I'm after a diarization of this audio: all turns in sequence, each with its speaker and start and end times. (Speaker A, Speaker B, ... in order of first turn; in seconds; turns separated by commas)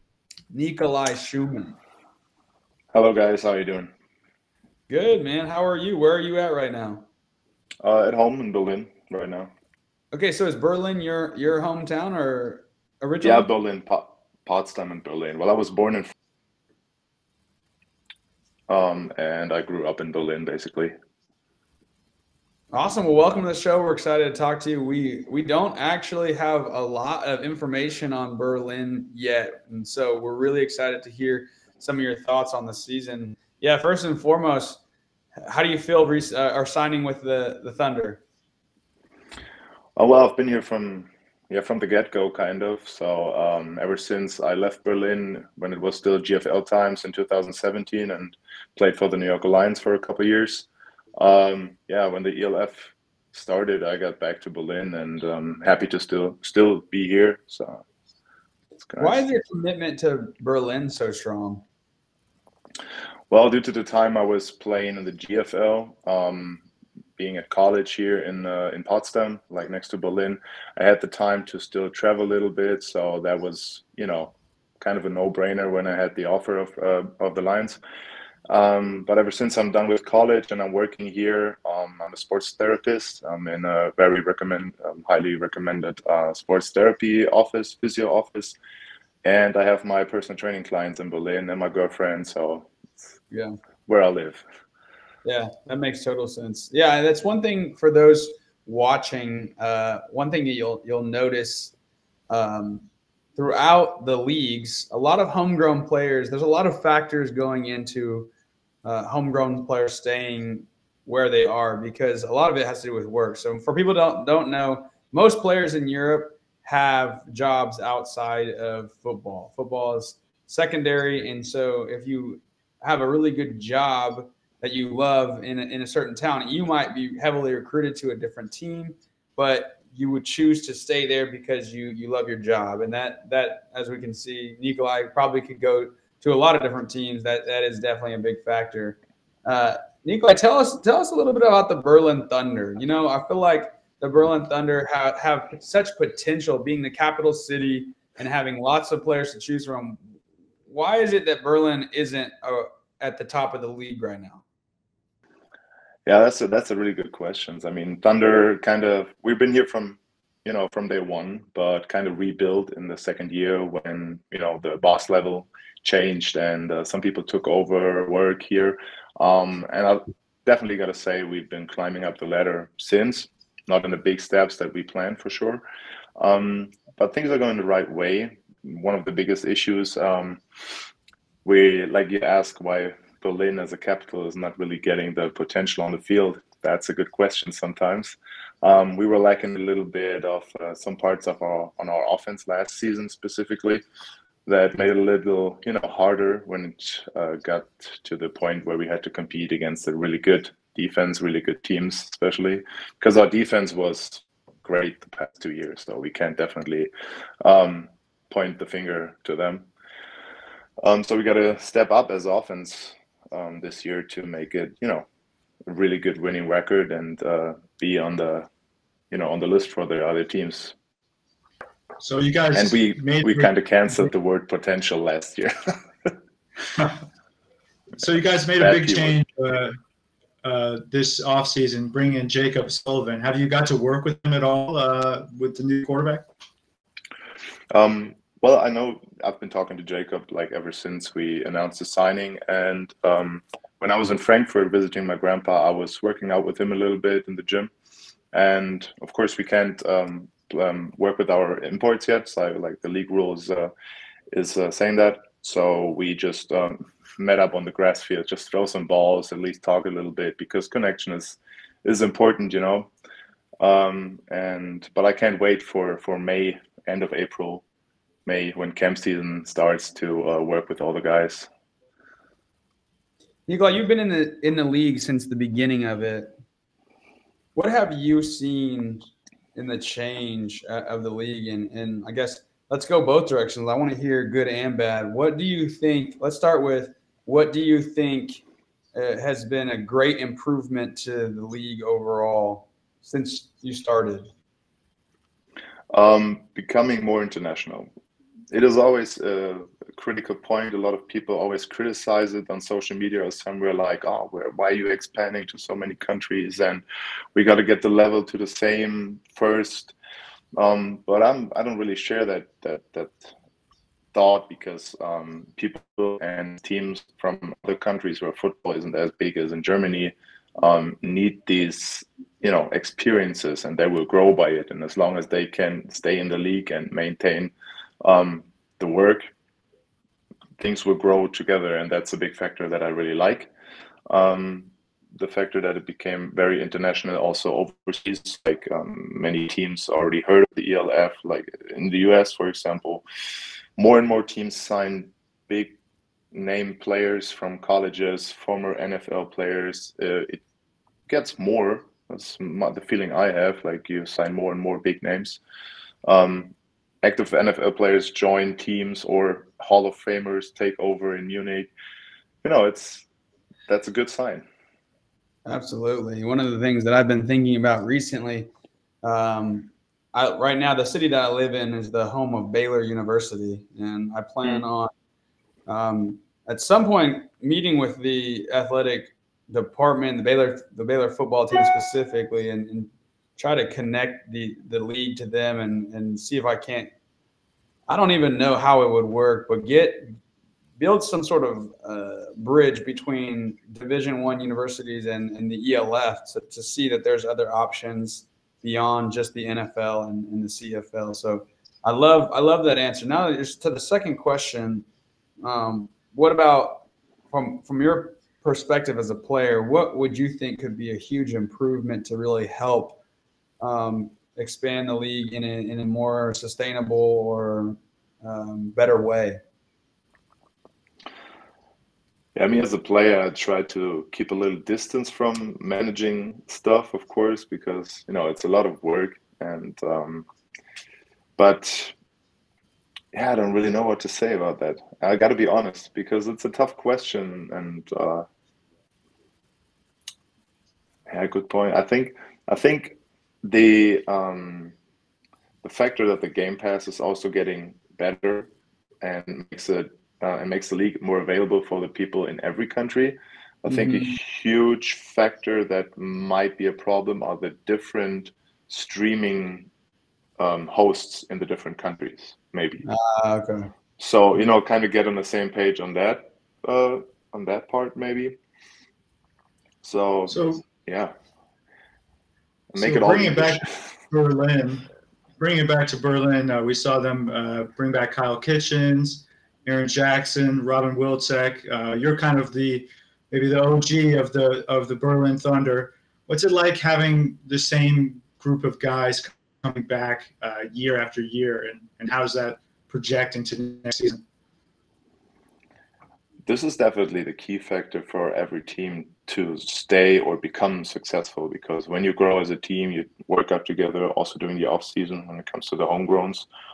Speaker A: 0.5-1.8, Speaker B: 2.9-3.9, Speaker A: 4.9-7.0, Speaker B: 7.8-9.5, Speaker A: 10.1-13.5, Speaker B: 13.2-16.1, Speaker B: 18.7-20.9, Speaker A: 22.7-34.8, Speaker A: 35.4-38.2, Speaker B: 40.0-57.8, Speaker B: 58.8-59.2, Speaker A: 59.0-61.6, Speaker B: 63.3-66.6, Speaker B: 67.2-77.8, Speaker B: 78.5-88.6, Speaker B: 89.2-92.7, Speaker A: 93.3-93.6, Speaker B: 93.9-94.5, Speaker A: 95.2-101.7, Speaker A: 102.3-108.3, Speaker A: 108.8-150.0, Speaker A: 150.7-154.4, Speaker B: 156.1-175.6, Speaker B: 176.2-180.4, Speaker B: 181.4-193.8, Speaker B: 194.5-206.9, Speaker B: 207.4-209.7, Speaker B: 210.8-215.1, Speaker B: 215.7-218.5, Speaker B: 219.1-220.8, Speaker C: 222.0-223.5, Speaker B: 222.5-225.5, Speaker C: 228.0-229.8, Speaker B: 228.6-229.2, Speaker C: 230.4-236.2, Speaker B: 237.7-247.7, Speaker B: 248.3-253.7, Speaker B: 254.3-262.9, Speaker B: 263.6-267.6, Speaker B: 268.2-271.5, Speaker A: 273.5-276.3, Speaker A: 277.5-288.4, Speaker A: 288.9-294.3, Speaker B: 295.9-297.9, Speaker B: 298.5-306.8, Speaker B: 307.3-309.9, Speaker B: 310.6-313.3, Speaker B: 314.1-329.3, Speaker B: 330.6-333.5, Speaker B: 334.1-343.0, Speaker B: 343.8-345.8, Speaker B: 346.3-350.4, Speaker B: 351.1-355.4, Speaker B: 356.1-361.7, Speaker B: 362.4-363.1, Speaker B: 363.7-364.4, Speaker A: 365.4-368.5, Speaker A: 369.0-374.9, Speaker A: 375.7-386.9, Speaker A: 387.9-390.1, Speaker A: 390.8-404.8, Speaker A: 405.4-413.0, Speaker A: 413.6-419.4, Speaker B: 422.4-430.2, Speaker B: 431.4-431.9, Speaker B: 433.1-438.2, Speaker B: 441.1-444.7, Speaker B: 445.6-448.5, Speaker B: 449.0-459.7, Speaker A: 453.7-454.1, Speaker B: 460.4-462.8, Speaker A: 462.8-463.7, Speaker B: 464.0-468.4, Speaker B: 469.8-471.1, Speaker C: 470.3-470.6, Speaker B: 472.7-473.7, Speaker C: 472.8-474.8, Speaker C: 475.4-494.2, Speaker B: 496.4-506.5